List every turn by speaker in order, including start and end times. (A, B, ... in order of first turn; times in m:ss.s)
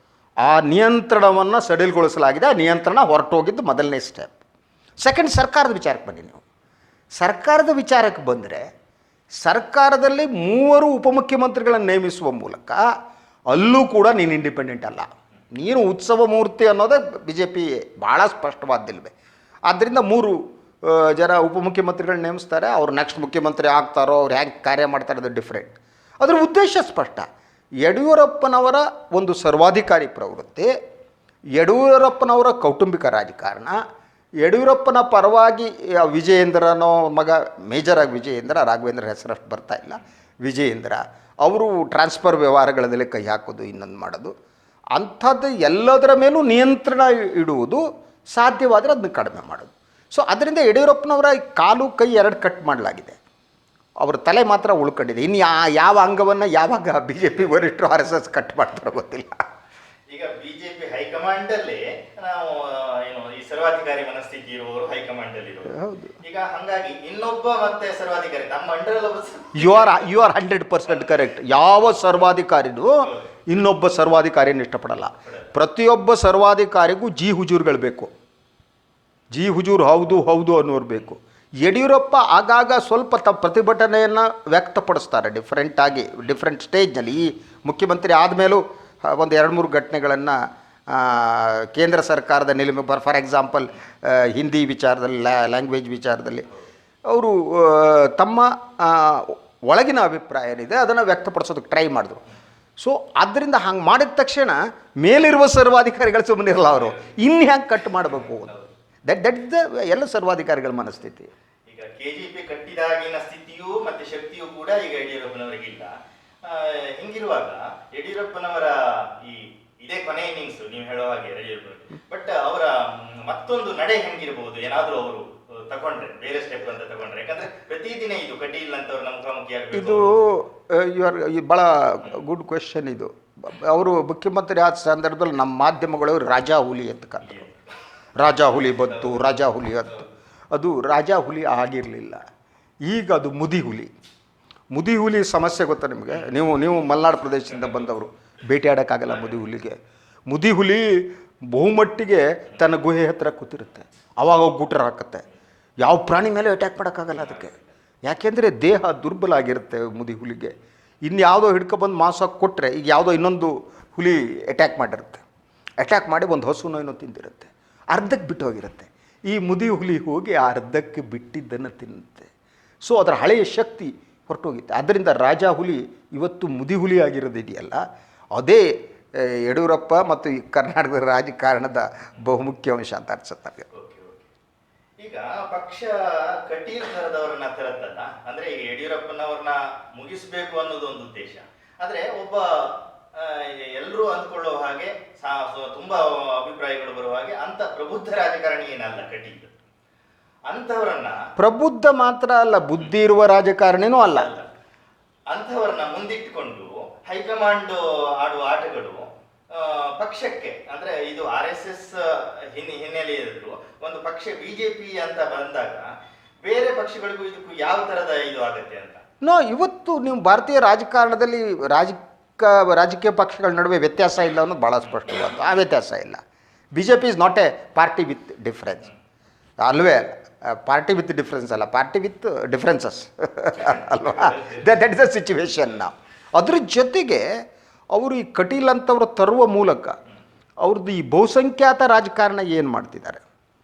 0:00.4-0:04.3 A
0:05.0-0:06.4 A
0:07.2-0:08.7 A
0:09.4-0:12.8 A
0:13.5-0:19.1 A
0:19.7-0:27.3 A
0:27.8-0:30.7 A
0:31.6-0:33.8 A
0:34.4-0:44.3 A
0:45.0-0:53.2 A
0:54.0-0:59.4 A
1:00.1-1:10.1 B
1:05.7-1:06.2 A
1:09.6-1:18.1 A
1:10.9-1:11.1 B
1:19.3-1:36.5 A
1:37.1-1:42.2 A
1:42.8-1:48.5 A
1:48.4-1:48.7 B
1:49.1-1:51.3 A
1:51.7-1:55.9 B
1:56.4-2:10.2 B
2:09.7-2:17.4 A
2:17.2-2:17.6 B
2:18.2-2:22.2 A
2:18.6-2:19.3 B
2:22.8-2:23.9 A
2:24.7-2:35.2 A
2:35.8-2:37.5 A
2:37.2-2:37.6 B
2:38.0-2:45.2 A
2:45.8-2:52.3 A
2:52.8-2:57.8 A
2:58.4-3:03.7 A
3:03.7-3:04.3 B
3:05.0-3:19.5 B
3:20.5-3:21.2 B
3:21.4-3:24.3 A
3:24.1-3:24.5 B
3:25.3-3:35.9 B
3:36.4-3:39.0 B
3:39.2-3:46.2 A
3:46.7-3:48.9 A
3:49.6-3:57.3 A
3:53.6-3:54.6 B
3:57.9-4:00.0 A
4:00.6-4:03.2 A